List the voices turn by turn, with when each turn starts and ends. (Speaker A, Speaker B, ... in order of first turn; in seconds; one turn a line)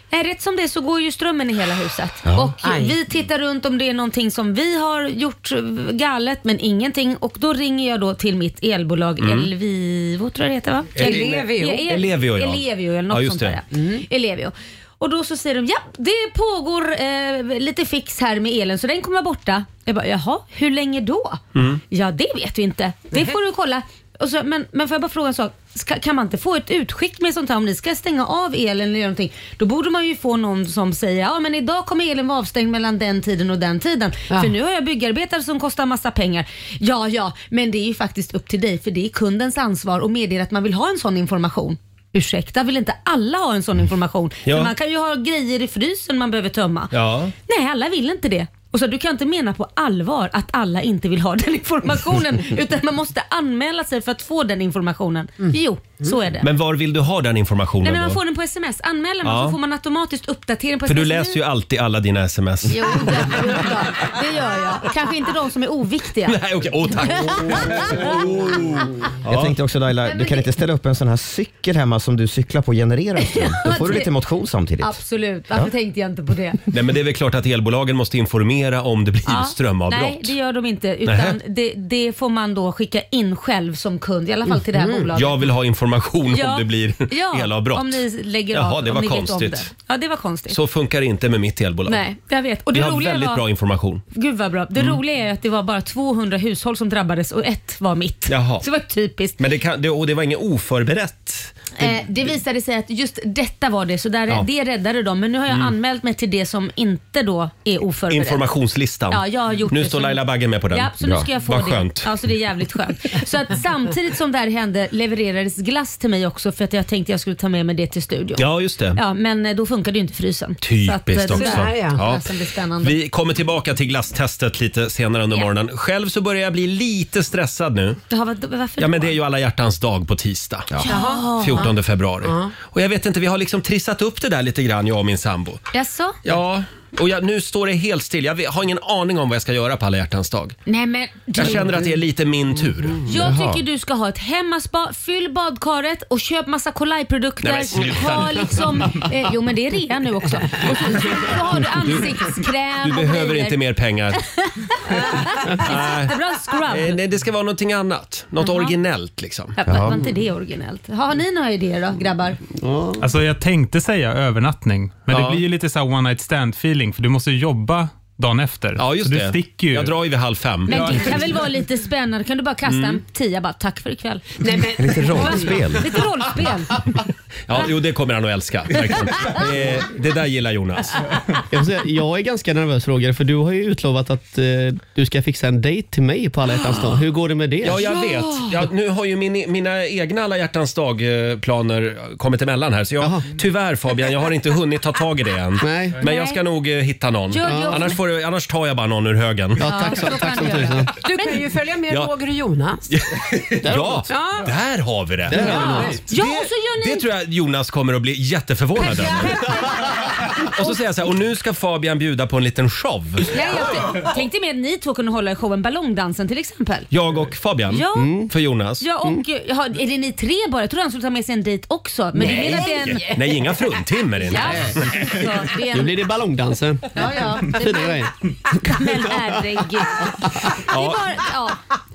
Speaker A: 0.1-46.9
Speaker B: 2.2-2.5
Speaker C: 2.6-3.0
Speaker D: 9.2-9.5
Speaker D: 11.0-13.6
Speaker C: 11.0-11.8
Speaker C: 13.7-14.0
Speaker D: 21.6-21.8
Speaker D: 44.5-44.7
Speaker D: 46.9-47.3
Speaker A: 47.5-56.5
Speaker D: 56.4-58.2
Speaker A: 57.8-61.4
Speaker D: 59.2-59.6
Speaker D: 60.9-63.8
Speaker A: 62.7-66.4
Speaker D: 66.2-69.5
Speaker A: 67.1-68.6
Speaker B: 69.3-75.0
Speaker A: 70.0-70.5
Speaker A: 73.2-74.1
Speaker A: 74.8-76.6
Speaker D: 76.7-80.3
Speaker A: 79.3-85.4
Speaker D: 81.0-81.4
Speaker C: 84.7-85.1
Speaker D: 85.1-88.0
Speaker A: 86.3-90.6
Speaker D: 88.5-89.7
Speaker D: 90.5-92.0
Speaker A: 91.9-93.4
Speaker D: 92.7-94.0
Speaker A: 94.1-99.4
Speaker D: 98.3-98.7
Speaker D: 99.4-102.0
Speaker A: 101.8-108.5
Speaker D: 108.1-112.1
Speaker A: 109.1-123.0
Speaker B: 111.0-111.3
Speaker D: 118.4-119.0
Speaker D: 120.6-122.3
Speaker C: 121.3-122.0
Speaker D: 122.8-128.0
Speaker A: 128.1-129.2
Speaker D: 128.8-135.6
Speaker C: 130.8-131.7
Speaker A: 130.9-131.7
Speaker C: 132.2-132.5
Speaker A: 135.7-136.2
Speaker D: 136.2-140.6
Speaker A: 140.7-141.8
Speaker D: 141.3-143.0
Speaker A: 143.1-153.6
Speaker B: 143.1-143.6
Speaker D: 147.4-148.9
Speaker D: 152.8-154.2
Speaker A: 154.3-157.0
Speaker D: 155.6-159.6
Speaker A: 158.4-158.8
Speaker A: 159.6-162.4
Speaker B: 159.7-160.1
Speaker E: 162.6-163.1
Speaker F: 163.0-169.9
Speaker D: 165.1-165.4
Speaker D: 168.8-171.2
Speaker A: 170.7-174.3
Speaker D: 172.7-173.0
Speaker C: 174.4-175.8
Speaker B: 174.8-175.9
Speaker A: 175.0-176.8
Speaker D: 177.5-181.2
Speaker E: 181.5-187.9
Speaker D: 187.6-199.9
Speaker A: 187.9-188.4
Speaker E: 193.0-193.3
Speaker E: 195.6-196.0
Speaker A: 196.0-196.4
Speaker A: 197.3-198.0
Speaker E: 197.4-197.8
Speaker E: 199.6-200.9
Speaker A: 199.6-201.3
Speaker C: 200.9-202.9
Speaker D: 202.9-209.6
Speaker E: 203.4-204.1
Speaker C: 204.1-204.5
Speaker E: 205.3-206.0
Speaker A: 205.4-207.1
Speaker A: 208.8-210.8
Speaker D: 210.4-213.3
Speaker A: 213.3-216.9
Speaker C: 213.4-214.0
Speaker D: 216.9-218.9
Speaker A: 217.7-218.3
Speaker E: 218.0-218.3
Speaker A: 218.8-223.2
Speaker C: 222.2-223.2
Speaker D: 222.2-225.1
Speaker A: 224.2-225.9
Speaker E: 224.6-229.4
Speaker A: 226.9-231.6
Speaker D: 230.7-231.0